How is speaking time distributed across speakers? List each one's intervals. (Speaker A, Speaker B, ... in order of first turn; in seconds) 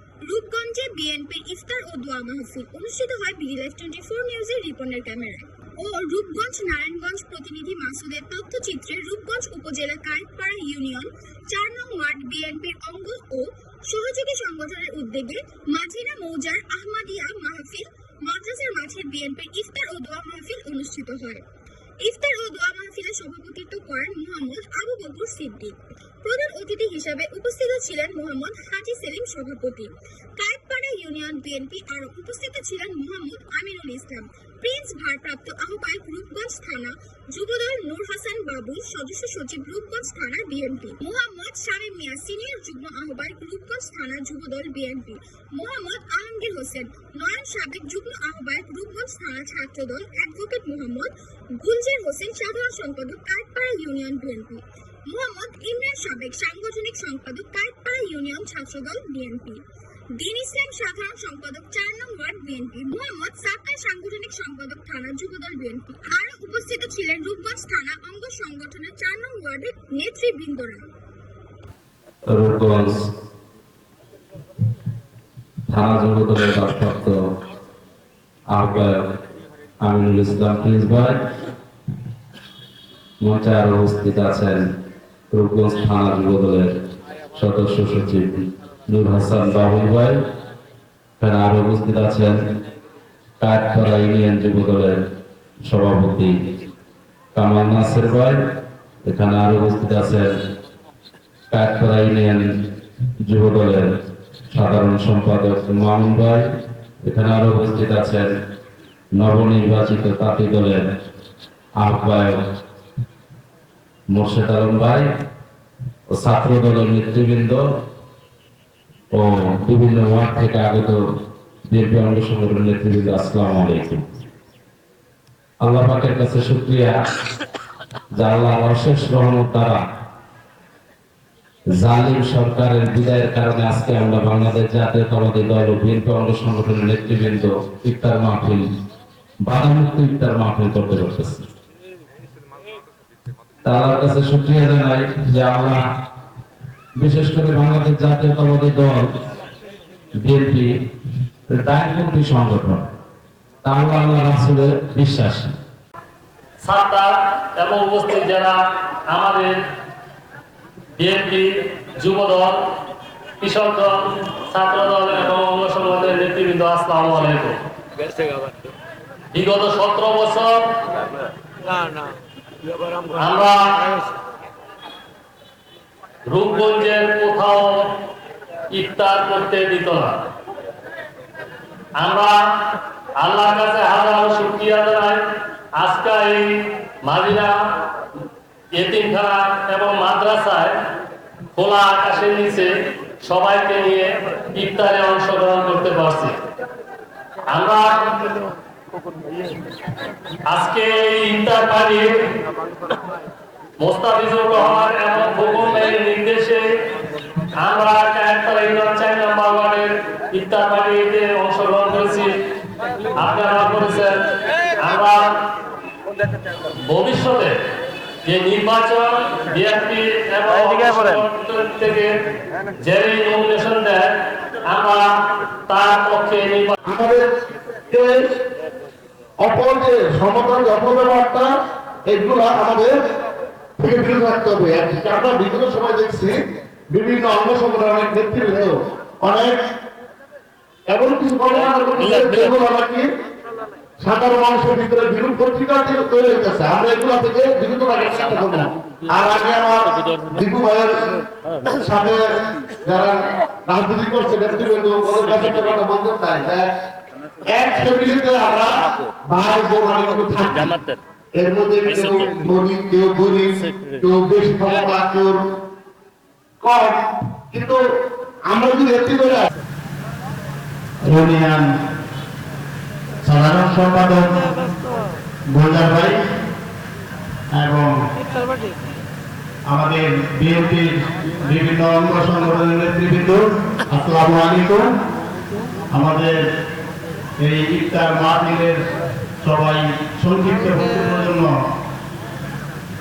Speaker A: 0.2-21.4, 22.0-59.6, 60.1-70.9
Speaker B: 72.3-73.0, 75.7-77.2, 78.5-79.0, 79.8-81.2, 83.2-84.6, 85.3-86.7, 87.3-90.2, 91.2-92.4, 93.4-95.0, 95.6-96.3, 97.3-98.4, 99.0-100.3, 101.5-102.5, 103.2-103.9, 104.5-106.5, 107.0-108.3, 109.1-110.8, 111.8-112.4, 114.1-115.1, 116.1-117.6, 119.1-121.0, 121.7-124.0, 125.6-126.9, 128.1-129.8, 131.7-138.7, 139.4-141.5, 143.6-145.8, 147.0-149.1, 150.2-150.7, 151.5-152.8, 153.6-155.5
Speaker C: 156.6-159.5, 161.0-162.6, 163.4-167.6, 169.3-170.6, 173.1-174.0, 176.2-177.9, 178.7-180.2, 182.0-182.4, 183.2-185.2, 185.8-187.6, 188.7-190.8, 191.5-192.7, 193.2-196.4, 197.5-198.2, 200.5-202.1, 203.8-206.7, 207.6-212.3, 213.2-214.2, 214.8-215.5, 216.9-217.5, 218.2-222.1, 222.8-224.1, 224.6-225.1, 225.7-226.8, 242.0-242.5, 260.4-261.0, 261.9-262.4, 263.6-264.0
Speaker D: 226.9-227.3, 227.9-228.3, 229.4-231.5, 232.1-233.0, 233.8-236.4, 236.9-239.6, 240.9-243.1, 244.0-256.7, 257.4-260.7, 261.4-265.4, 266.6-267.0, 267.5-267.8, 268.5-269.5
Speaker E: 271.1-271.7, 273.2-274.4, 275.5-276.2, 277.5-277.9, 279.7-280.9, 281.4-284.9, 285.9-286.4, 287.4-288.8, 289.4-291.5